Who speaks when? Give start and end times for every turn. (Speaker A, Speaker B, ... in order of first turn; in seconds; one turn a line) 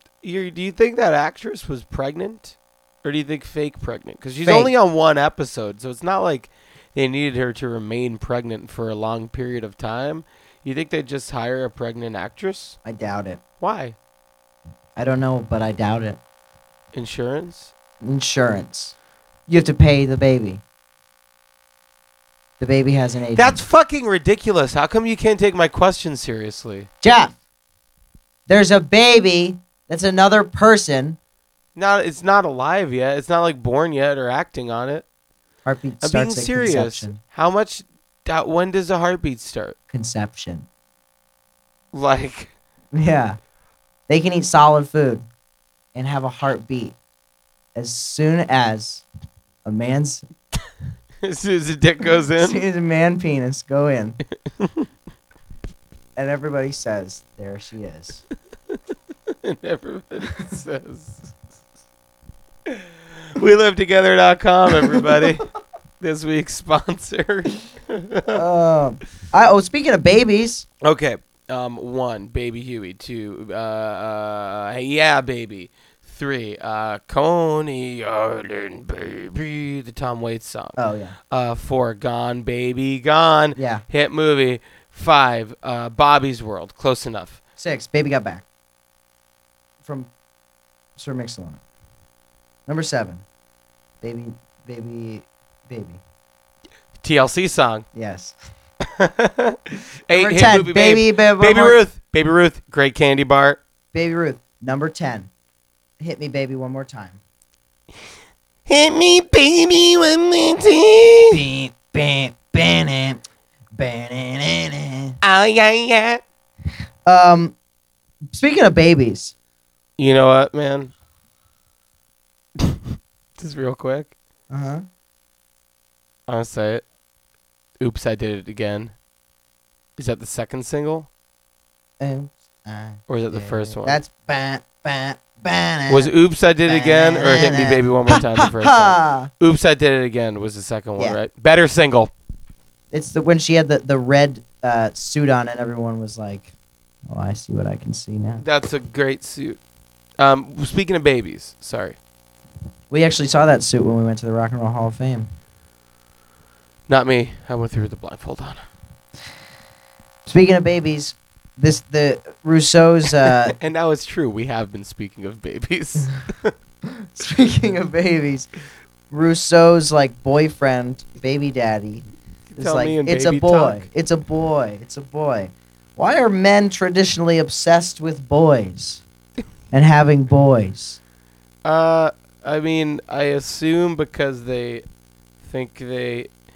Speaker A: 0.2-12.8
Speaker B: 4.4-4.7
Speaker B: 12.8-13.4
Speaker A: 13.6-13.9
Speaker B: 14.9-16.2
Speaker A: 16.9-17.7
Speaker B: 18.0-18.9
Speaker B: 19.5-20.6
Speaker B: 22.6-23.6
Speaker A: 23.4-26.9
Speaker B: 27.0-27.3
Speaker B: 28.5-31.2
Speaker A: 31.8-35.0
Speaker B: 35.6-37.2
Speaker A: 36.0-39.8
Speaker B: 39.9-40.7
Speaker A: 41.9-42.5
Speaker B: 42.9-43.4
Speaker B: 44.1-45.2
Speaker B: 45.9-47.0
Speaker B: 47.7-49.0
Speaker B: 49.6-50.2
Speaker A: 51.2-52.6
Speaker B: 52.4-54.2
Speaker A: 54.6-54.9
Speaker B: 56.1-58.2
Speaker A: 59.3-61.3
Speaker A: 63.3-65.5
Speaker B: 64.8-65.2
Speaker A: 66.0-68.4
Speaker B: 68.3-70.7
Speaker A: 70.8-80.8
Speaker B: 80.8-81.1
Speaker A: 81.3-87.4
Speaker B: 83.5-83.8
Speaker B: 87.6-88.4
Speaker B: 89.8-90.1
Speaker B: 91.0-91.6
Speaker B: 92.7-93.2
Speaker B: 94.0-96.0
Speaker A: 97.0-97.8
Speaker B: 97.9-98.3
Speaker A: 99.0-103.6
Speaker B: 100.1-101.8
Speaker B: 103.9-105.3
Speaker B: 106.0-107.2
Speaker A: 108.7-111.4
Speaker B: 111.3-113.2
Speaker B: 113.7-115.2
Speaker A: 115.2-116.2
Speaker B: 117.0-117.5
Speaker B: 118.3-119.3
Speaker A: 120.0-120.9
Speaker A: 122.6-124.1
Speaker B: 124.5-124.8
Speaker A: 126.3-126.8
Speaker A: 127.8-128.9
Speaker A: 130.0-131.1
Speaker B: 132.0-136.1
Speaker A: 133.1-134.0
Speaker A: 135.9-142.1
Speaker B: 136.7-139.3
Speaker B: 142.9-146.5
Speaker B: 147.1-148.4
Speaker A: 148.4-149.6
Speaker A: 150.2-152.0
Speaker B: 152.9-155.3
Speaker A: 156.9-158.6
Speaker B: 160.2-163.6
Speaker A: 163.6-166.5
Speaker B: 167.0-168.5
Speaker B: 169.1-172.0
Speaker A: 172.5-173.9
Speaker B: 172.6-179.0
Speaker B: 179.7-181.0
Speaker A: 181.6-184.8
Speaker A: 185.4-186.3